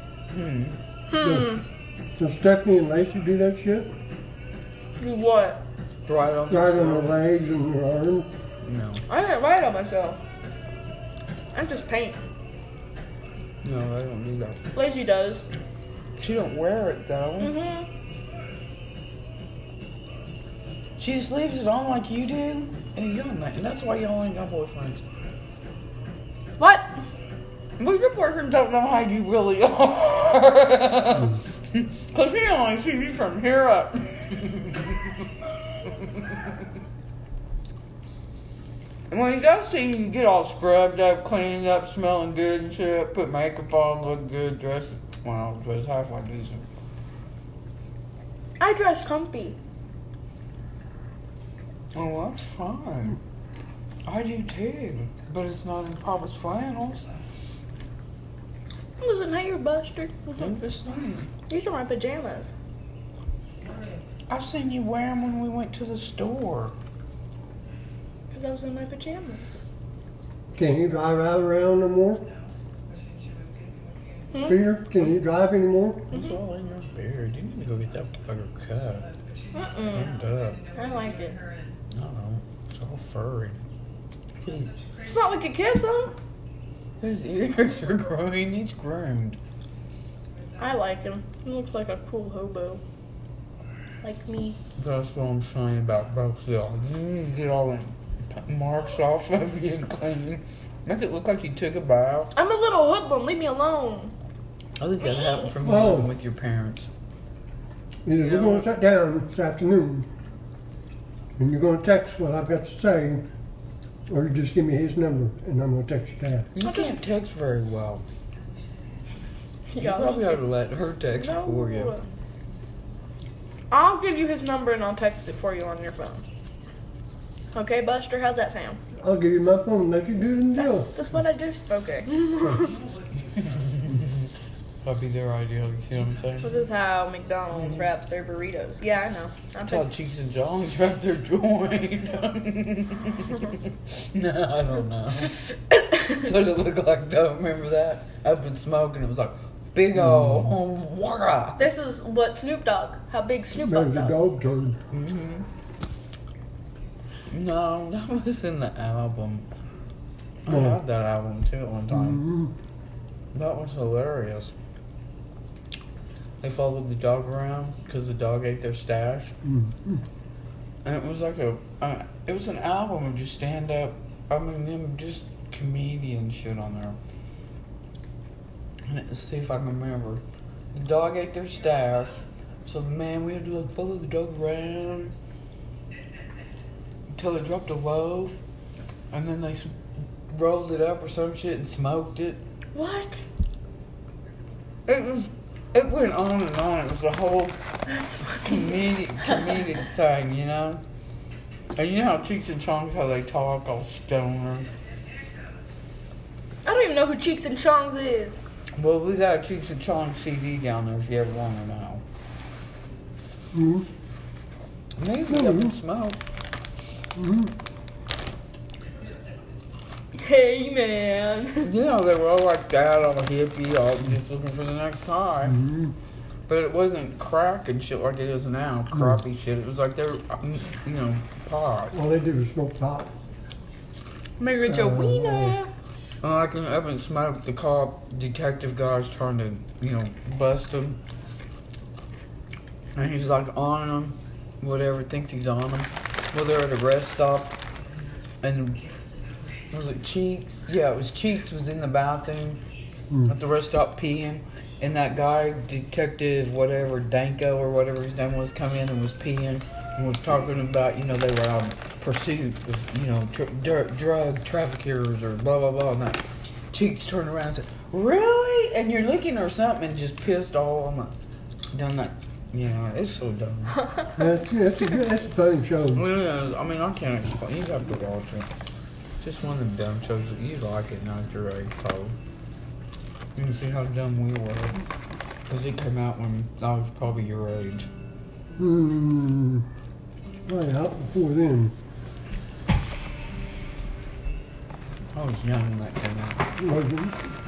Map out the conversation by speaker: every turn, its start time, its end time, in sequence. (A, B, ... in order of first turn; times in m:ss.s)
0:00.3-0:00.8 A
0:01.1-0:01.6 B
0:01.2-0:01.6 C
0:02.2-0:03.9 C
0:05.0-0:05.6 B
0:06.0-0:07.2 A
0:06.5-0:08.3 C
0:08.6-0:09.0 A
0:09.1-0:10.2 B
0:11.5-0:12.2 B
0:13.6-0:14.6 A
0:14.7-0:15.4 B
0:16.2-0:17.5 A
0:17.4-0:17.9 B
0:21.0-0:25.0 A
0:26.6-0:26.9 B
0:27.8-0:36.6 A
0:39.1-0:46.7 A
0:48.6-0:49.6 B
0:51.9-0:53.2 A
0:54.0-0:57.1 A
0:59.0-1:00.6 B
1:00.4-1:01.3 A
1:01.5-1:02.5 B
1:04.3-1:06.7 A
1:08.3-1:09.6 B
1:10.5-1:12.2 C
1:14.3-1:14.6 B
1:14.4-1:16.1 C
1:16.1-1:19.1 A
1:19.5-1:21.4 B
1:19.9-1:20.6 A
1:21.9-1:23.6 A
1:24.4-1:24.7 A
1:25.0-1:26.1 B
1:27.0-1:29.4 A
1:30.6-1:32.8 B
1:34.0-1:34.6 B
1:34.8-1:42.3 A
1:42.3-1:44.1 B
1:44.8-1:46.9 A
1:45.6-1:46.1 C
1:48.0-1:50.1 C
1:48.1-1:48.7 A
1:51.4-1:53.2 C
1:54.1-1:56.5 C
1:56.5-1:58.0 A
1:56.6-1:57.0 B
1:59.7-2:00.4 B
1:59.8-2:01.9 A
2:01.2-2:02.0 B
2:03.7-2:06.2 B
2:07.5-2:08.8 B
2:09.0-2:11.0 C
2:10.6-2:12.7 B
2:12.5-2:14.3 A
2:14.8-2:16.6 A
2:16.4-2:19.8 B
2:17.5-2:17.9 A
2:19.6-2:31.7 A
2:31.6-2:34.1 B
2:33.5-2:34.8 C
2:34.9-2:35.5 A
2:37.3-2:39.5 A
2:40.4-2:42.2 A
2:40.5-2:40.8 C
2:41.9-2:42.5 C
2:43.3-2:44.5 A
2:46.4-2:49.3 A
2:49.4-2:50.0 C
2:50.8-2:57.0 A
2:58.8-3:00.2 A
3:00.7-3:05.1 A
3:07.1-3:08.4 A
3:09.1-3:09.7 A
3:10.3-3:12.4 A
3:12.7-3:13.2 B
3:14.9-3:17.6 A
3:17.9-3:19.7 B
3:18.4-3:20.8 A
3:21.8-3:24.7 A
3:26.6-3:28.4 B
3:28.8-3:32.0 A
3:33.5-3:33.9 C
3:35.0-3:36.2 A
3:35.3-3:35.7 C
3:37.2-3:37.5 C
3:40.1-3:41.7 B
3:41.6-3:45.6 A
3:45.4-3:45.9 C
3:46.5-3:52.0 A
3:51.9-3:53.1 C
3:54.4-3:55.7 B
3:54.6-3:55.6 C
3:56.2-4:01.0 A
4:02.9-4:07.6 A
4:08.4-4:08.8 A
4:09.7-4:12.6 A
4:13.3-4:31.1 A
4:31.7-4:33.8 A
4:34.2-4:36.0 C
4:35.9-4:38.5 A
4:39.2-4:42.2 A
4:43.4-4:44.8 A
4:45.5-4:47.9 A
4:48.6-4:49.6 C
4:50.5-4:51.7 C
4:55.1-4:56.4 A
4:56.6-4:57.1 C